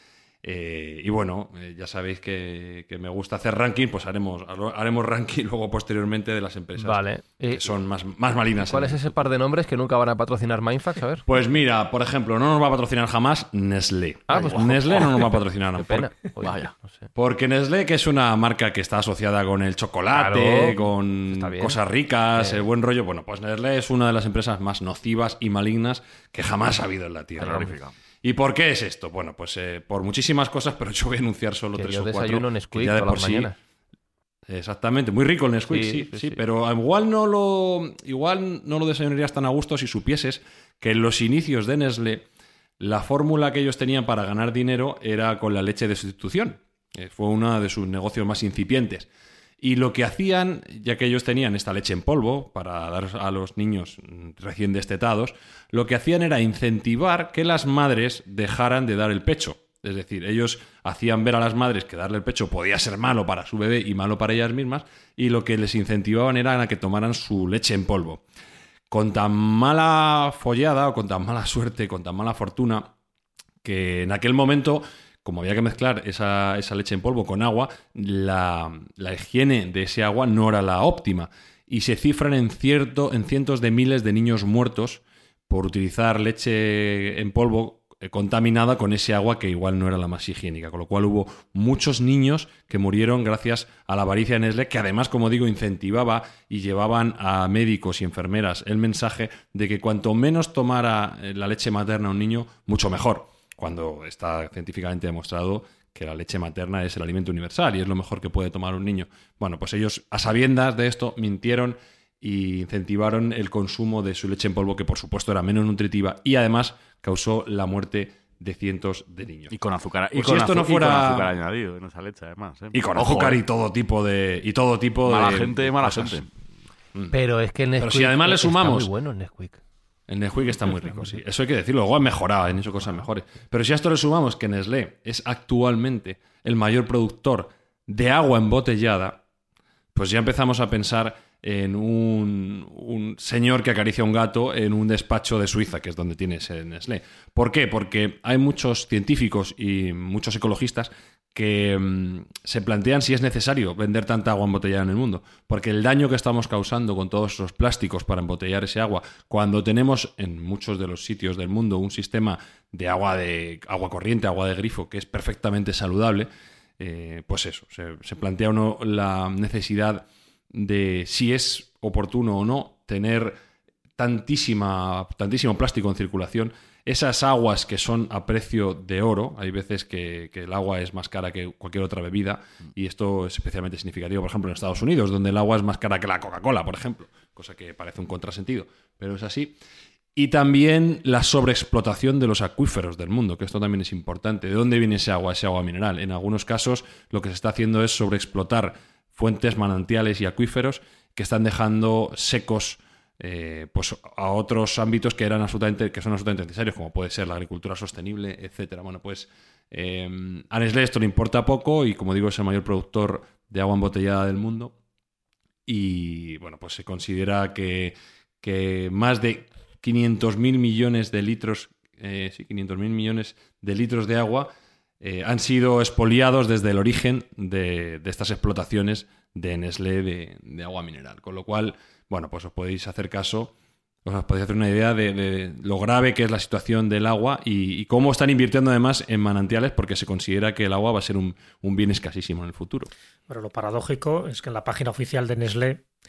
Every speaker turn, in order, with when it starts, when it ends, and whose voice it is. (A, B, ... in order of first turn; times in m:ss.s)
0:00.4-0:09.1 A
0:06.8-0:07.7 B
0:08.6-0:11.2 B
0:11.3-0:16.1 A
0:14.3-0:17.1 B
0:14.4-0:15.1 C
0:16.4-0:16.7 C
0:17.2-0:33.5 A
0:20.1-0:21.8 B
0:22.4-0:22.6 B
0:27.4-0:27.9 B
0:31.8-0:33.5 B
0:34.5-0:42.2 A
0:35.7-0:36.4 B
0:42.8-0:49.1 A
0:49.6-1:08.2 A
1:08.9-1:12.9 A
1:13.6-1:59.5 A
1:59.5-2:03.4 C
2:00.1-2:01.3 A
2:02.7-2:06.2 A
2:05.0-2:06.3 C
2:07.1-2:09.6 B
2:07.8-2:08.9 A
2:10.1-2:19.2 A
2:19.9-2:53.4 A
2:54.0-3:09.6 A
3:10.2-3:34.7 A
3:35.7-3:53.5 A
3:54.0-4:02.9 A
4:03.3-4:05.8 D